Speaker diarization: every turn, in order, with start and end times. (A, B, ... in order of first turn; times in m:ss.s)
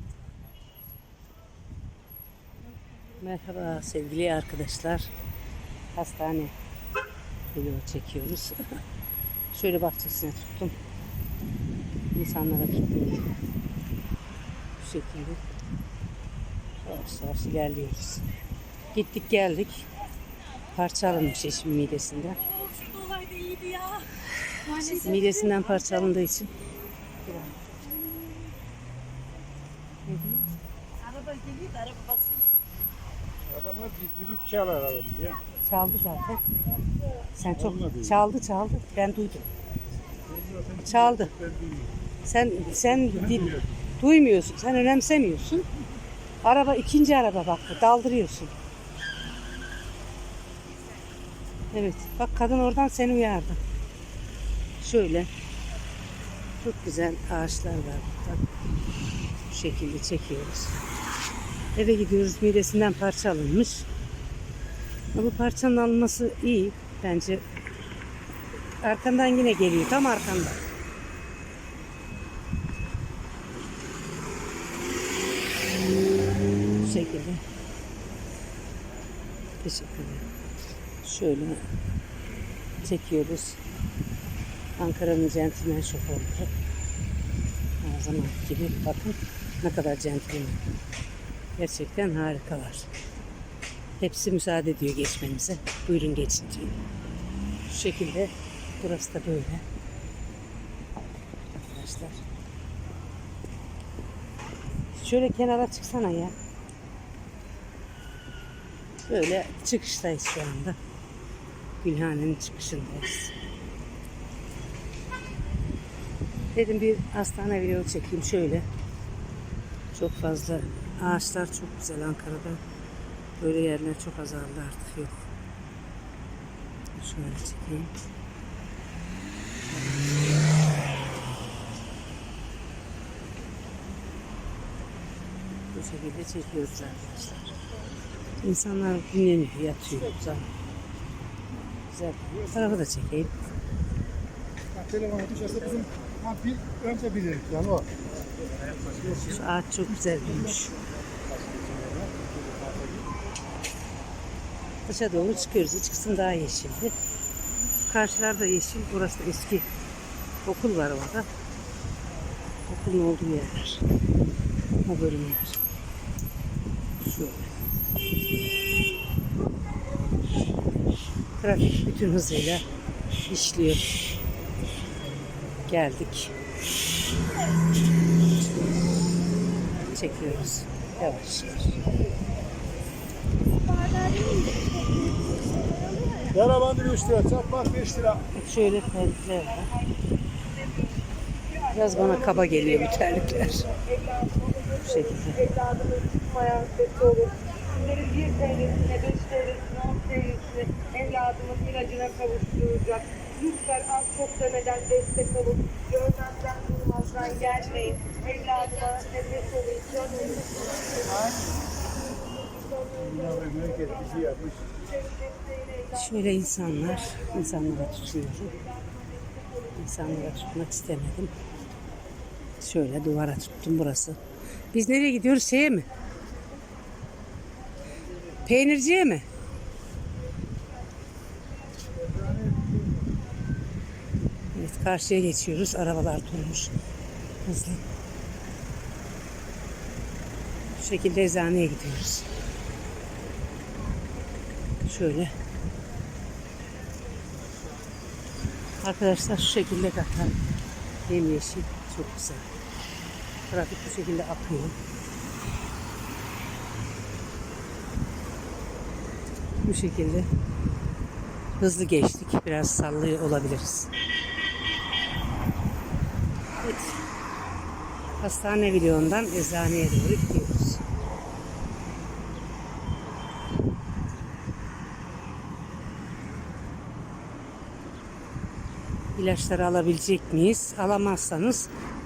0:03.1-0:05.1 A
0:05.9-0:06.6 A
0:07.5-0:08.8 A
0:09.5-0:10.8 A
0:12.1-0:13.3 A
0:14.8-0:15.4 A
0:16.8-0:18.3 A
0:18.9-0:19.9 A
0:20.7-0:26.6 A
0:27.2-0:27.6 A
0:30.1-0:30.5 A
0:33.5-0:35.4 B
0:35.6-0:36.5 A
0:37.3-0:39.5 A
0:40.8-0:41.4 A
0:42.2-0:45.7 A
0:46.4-0:48.6 A
0:51.7-0:53.6 A
0:54.8-0:55.3 A
0:56.6-0:58.5 A
0:59.5-1:00.8 A
1:01.8-1:03.9 A
1:05.1-1:07.4 A
1:08.8-1:10.6 A
1:16.8-1:17.4 A
1:19.6-1:20.3 A
1:21.0-1:21.7 A
1:22.8-1:23.6 A
1:24.8-1:26.5 A
1:27.8-1:30.7 A
1:31.6-1:32.9 A
1:34.0-1:36.8 A
1:37.7-1:39.6 A
1:41.5-1:42.2 A
1:44.9-1:46.4 A
1:49.1-1:50.8 A
1:51.8-1:53.3 A
1:56.5-1:58.7 A
1:59.9-2:02.6 A
2:03.4-2:05.2 A
2:07.0-2:07.9 A
2:15.7-2:17.6 A
2:18.4-2:20.5 A
2:21.9-2:23.4 A
2:24.8-2:27.9 B
2:28.9-2:29.2 B
2:29.2-2:30.8 A
2:31.4-2:32.9 B
2:34.9-2:37.0 A
2:37.8-2:39.7 A
2:40.4-2:41.3 A
2:42.7-2:43.8 A
2:44.8-2:45.6 A
2:47.0-2:47.5 A
2:51.4-2:52.6 A
2:53.3-2:54.0 A
2:55.7-2:56.4 A
2:59.9-3:01.9 A
3:03.7-3:06.3 C
3:06.3-3:08.2 B
3:08.3-3:09.8 A
3:11.7-3:13.8 A
3:14.0-3:14.6 C
3:14.7-3:15.7 A
3:15.6-3:30.7 C
3:31.0-3:31.5 B
3:32.9-3:34.6 B
3:35.3-3:35.7 C
3:35.8-3:38.7 A
3:39.6-3:41.3 A
3:42.6-3:44.2 A
3:44.7-3:45.9 A
3:48.4-3:49.3 A
3:54.5-3:56.8 A
3:57.4-3:57.8 A
4:00.8-4:02.3 A
4:04.8-4:05.4 A
4:08.8-4:10.4 A
4:11.1-4:12.5 A
4:13.5-4:14.8 A
4:19.6-4:20.3 A
4:21.6-4:23.9 A
4:26.6-4:27.0 A
4:28.2-4:30.8 A
4:39.2-4:41.7 A